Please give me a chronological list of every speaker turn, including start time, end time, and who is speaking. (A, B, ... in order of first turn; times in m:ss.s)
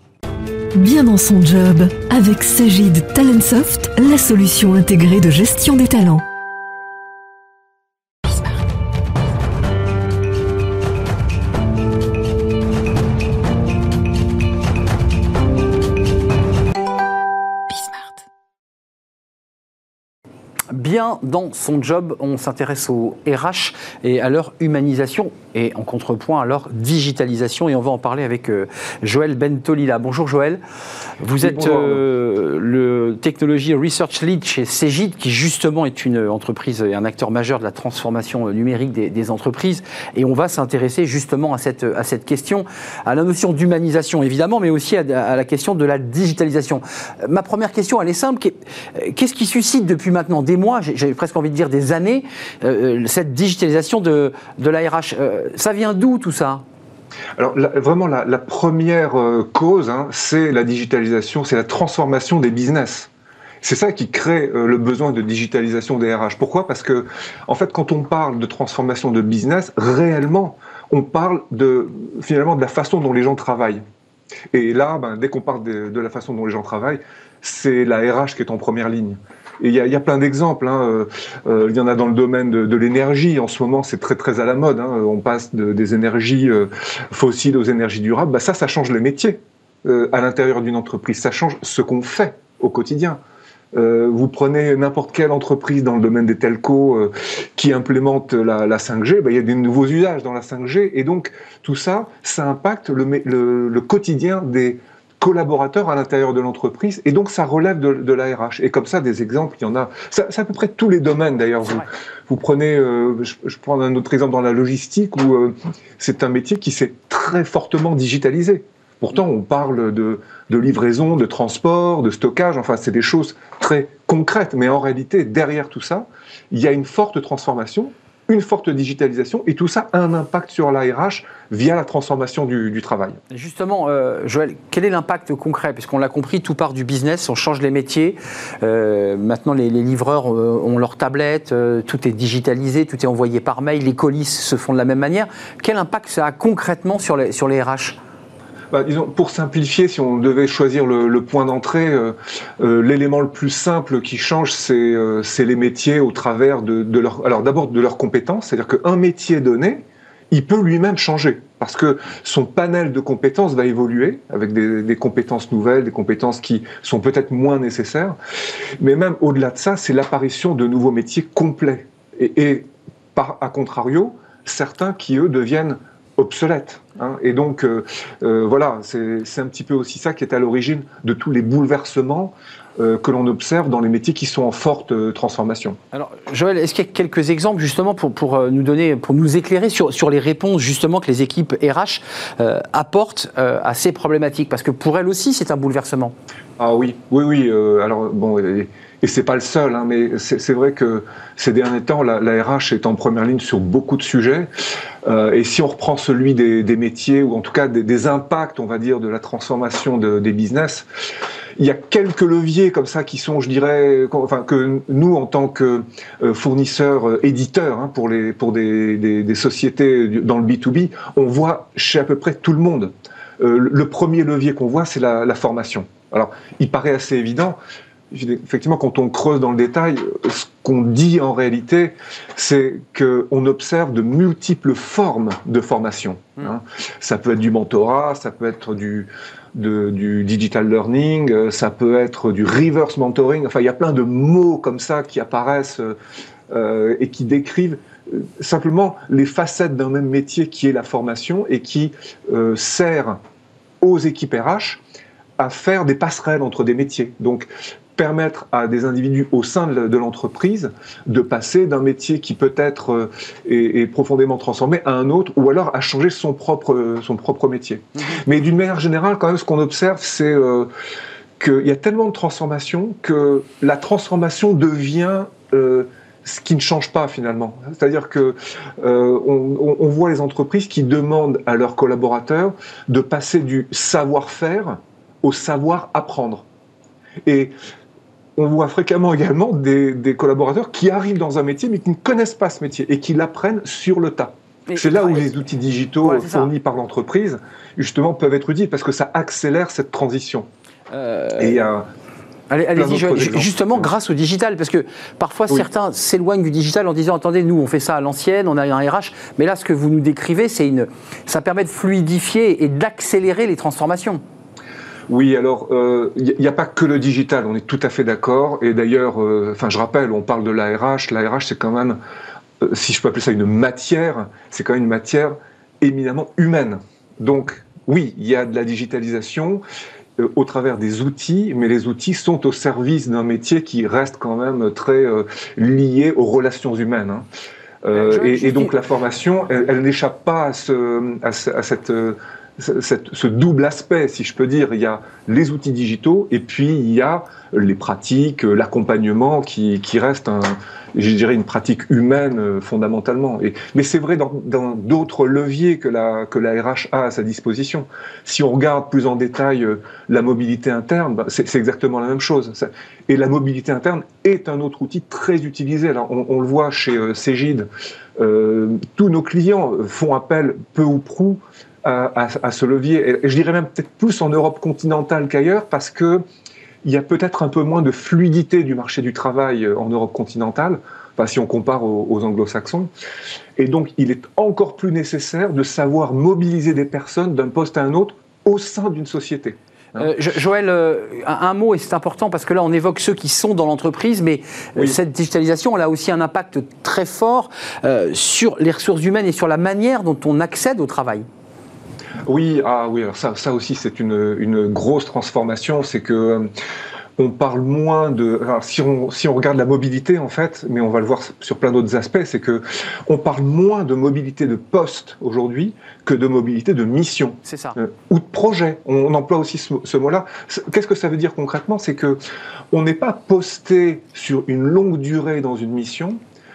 0:00.8-0:06.2 A
0:20.7-0:30.6 B
0:31.2-0:56.6 B
0:31.4-0:32.0 C
0:57.4-1:03.1 C
1:03.6-1:13.8 C
1:14.5-1:33.2 C
1:33.7-2:13.2 C
2:13.3-2:28.0 B
2:28.7-2:48.2 C
2:48.8-3:05.8 C
3:05.9-3:16.2 B
3:16.6-3:24.5 C
3:25.0-3:30.9 C
3:31.6-3:47.6 C
3:48.1-4:06.0 C
4:06.5-4:13.2 C
4:13.8-4:14.8 C
4:15.4-4:30.7 C
4:31.4-4:46.4 C
4:47.2-4:47.5 C
4:48.4-5:00.5 C
4:54.7-4:55.3 B
4:56.0-4:56.5 B
5:00.9-5:01.6 B
5:01.4-5:01.9 C
5:02.5-5:14.2 B
5:02.8-5:03.9 C
5:15.1-5:22.0 C
5:22.6-5:29.6 C
5:30.2-5:37.2 C
5:37.8-6:16.2 C
5:37.9-5:38.7 B
6:16.8-6:22.9 C
6:23.6-6:30.1 C
6:30.0-6:41.2 B
6:42.2-6:46.5 C
6:47.2-7:02.2 C
6:57.4-6:57.8 B
7:02.7-7:06.2 C